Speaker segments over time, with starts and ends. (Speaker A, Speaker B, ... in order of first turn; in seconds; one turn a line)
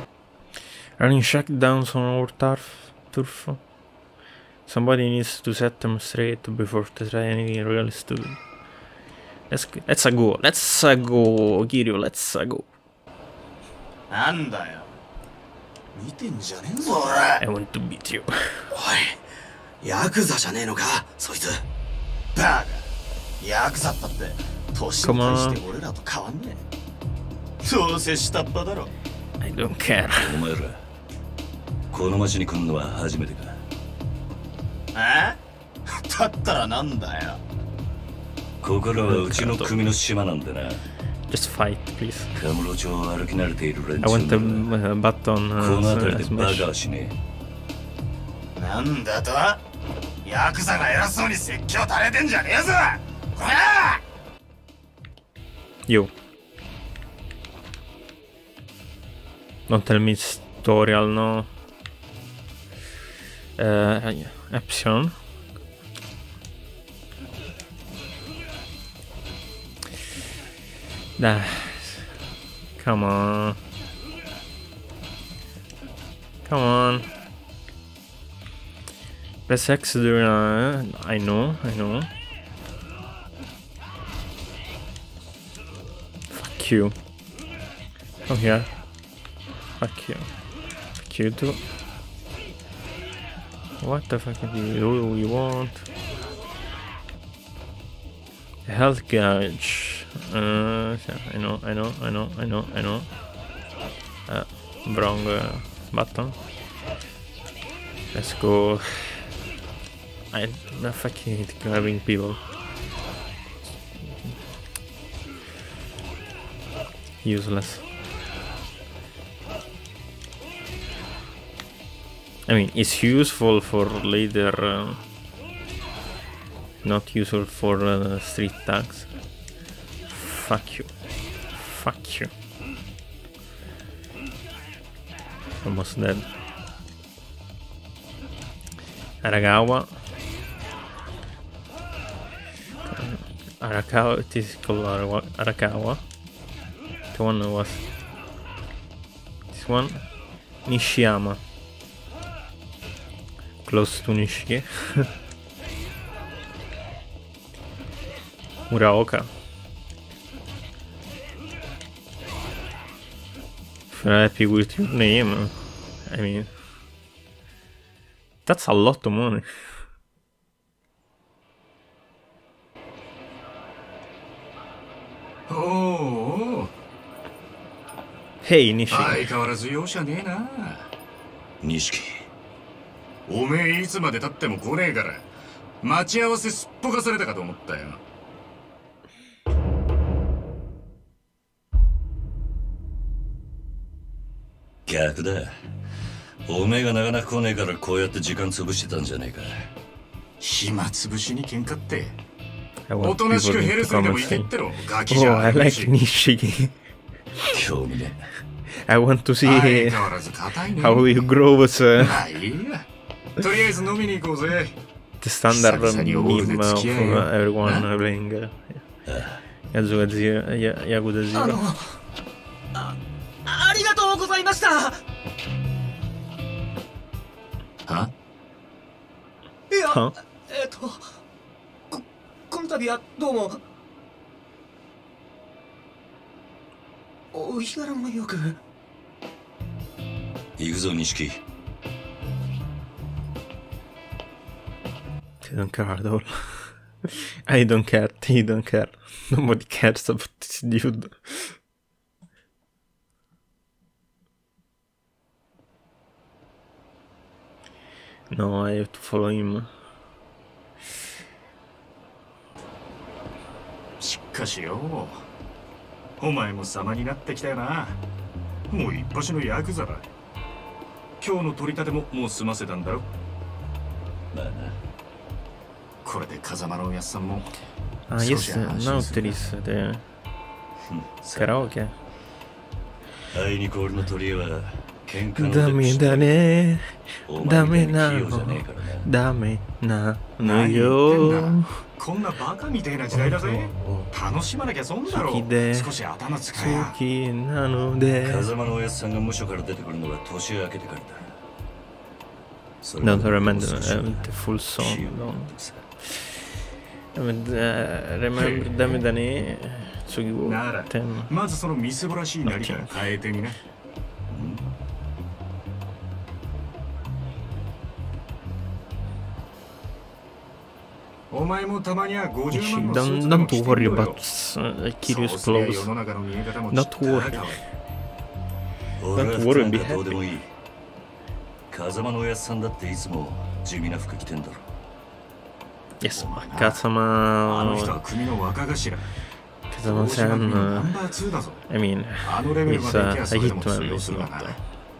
Speaker A: 1.0-3.6
Speaker A: 4.7-8.4
Speaker A: 9.5-12.7
Speaker B: 14.1-14.9
Speaker B: 15.9-17.4
Speaker A: 17.4-18.6
Speaker B: 18.7-19.2
Speaker B: 19.8-21.6
Speaker B: 22.4-22.9
Speaker B: 23.4-26.6
Speaker A: 25.0-25.6
Speaker B: 27.6-28.9
Speaker A: 29.4-30.4
Speaker C: 30.1-30.8
Speaker C: 31.9-33.6
Speaker B: 35.0-37.4
Speaker C: 38.6-40.8
Speaker A: 39.0-39.8
Speaker A: 41.3-42.3
Speaker C: 42.4-44.7
Speaker A: 44.0-46.7
Speaker C: 45.6-47.1
Speaker B: 48.6-49.6
Speaker B: 50.2-54.0
Speaker A: 55.9-56.1
Speaker A: 59.7-61.5
Speaker A: 63.6-65.2
Speaker A: 71.2-72.1
Speaker A: 72.8-73.6
Speaker A: 76.5-77.1
Speaker A: 79.5-82.1
Speaker A: 86.3-87.0
Speaker A: 88.3-88.7
Speaker A: 89.8-90.3
Speaker A: 91.0-91.6
Speaker A: 93.8-95.9
Speaker A: 98.7-103.1
Speaker A: 104.3-106.4
Speaker A: 108.1-109.2
Speaker A: 110.3-112.4
Speaker A: 117.2-117.8
Speaker A: 122.5-125.0
Speaker A: 126.8-129.1
Speaker A: 130.1-130.9
Speaker A: 131.6-132.3
Speaker A: 135.6-136.3
Speaker A: 139.2-139.9
Speaker A: 142.9-146.0
Speaker A: 147.1-147.8
Speaker A: 149.5-150.0
Speaker A: 150.7-151.4
Speaker A: 153.7-155.1
Speaker A: 158.7-159.3
Speaker A: 163.9-165.5
Speaker A: 166.1-166.5
Speaker A: 168.5-169.5
Speaker D: 175.5-176.7
Speaker A: 178.4-179.3
Speaker D: 178.9-180.9
Speaker C: 181.6-182.3
Speaker D: 183.3-185.3
Speaker D: 185.8-188.0
Speaker C: 194.9-195.7
Speaker C: 196.5-199.7
Speaker D: 200.4-202.2
Speaker A: 202.9-204.5
Speaker D: 203.0-205.9
Speaker A: 205.1-206.7
Speaker C: 207.5-208.3
Speaker A: 208.8-210.1
Speaker D: 209.4-211.3
Speaker A: 210.8-212.2
Speaker D: 212.0-212.9
Speaker D: 213.4-214.8
Speaker A: 215.2-218.8
Speaker D: 215.5-217.9
Speaker C: 219.1-219.4
Speaker A: 219.7-221.6
Speaker E: 221.3-221.9
Speaker E: 223.5-225.0
Speaker D: 227.9-228.1
Speaker E: 229.7-231.0
Speaker A: 229.9-230.2
Speaker E: 231.9-233.6
Speaker E: 237.3-238.6
Speaker C: 240.6-241.4
Speaker A: 245.4-251.6
Speaker A: 258.3-259.7
Speaker D: 264.0-265.3
Speaker D: 266.2-268.0
Speaker D: 268.7-270.1
Speaker D: 271.2-273.1
Speaker C: 274.3-274.8
Speaker D: 276.0-277.5
Speaker A: 278.1-280.0
Speaker D: 278.1-279.4
Speaker C: 280.9-281.7
Speaker A: 281.4-281.9
Speaker C: 283.3-286.4
Speaker A: 285.4-291.6
Speaker C: 287.3-289.1
Speaker D: 290.4-296.9
Speaker A: 293.2-294.1
Speaker A: 295.1-295.9
Speaker A: 296.5-298.5
Speaker C: 298.2-301.3
Speaker C: 302.8-305.9
Speaker A: 303.0-305.5
Speaker A: 307.1-311.3
Speaker D: 308.4-309.0
Speaker D: 310.4-313.6
Speaker A: 312.5-312.9
Speaker C: 314.3-314.7
Speaker D: 321.3-324.2
Speaker A: 322.5-325.9
Speaker D: 325.0-327.6
Speaker A: 326.7-327.5
Speaker C: 329.0-330.5
Speaker A: 329.1-330.2
Speaker C: 331.7-334.7
Speaker A: 336.0-338.0
Speaker D: 336.1-336.8
Speaker D: 337.5-339.1
Speaker A: 339.7-340.9
Speaker D: 339.9-341.6
Speaker A: 341.7-344.6
Speaker D: 342.2-344.6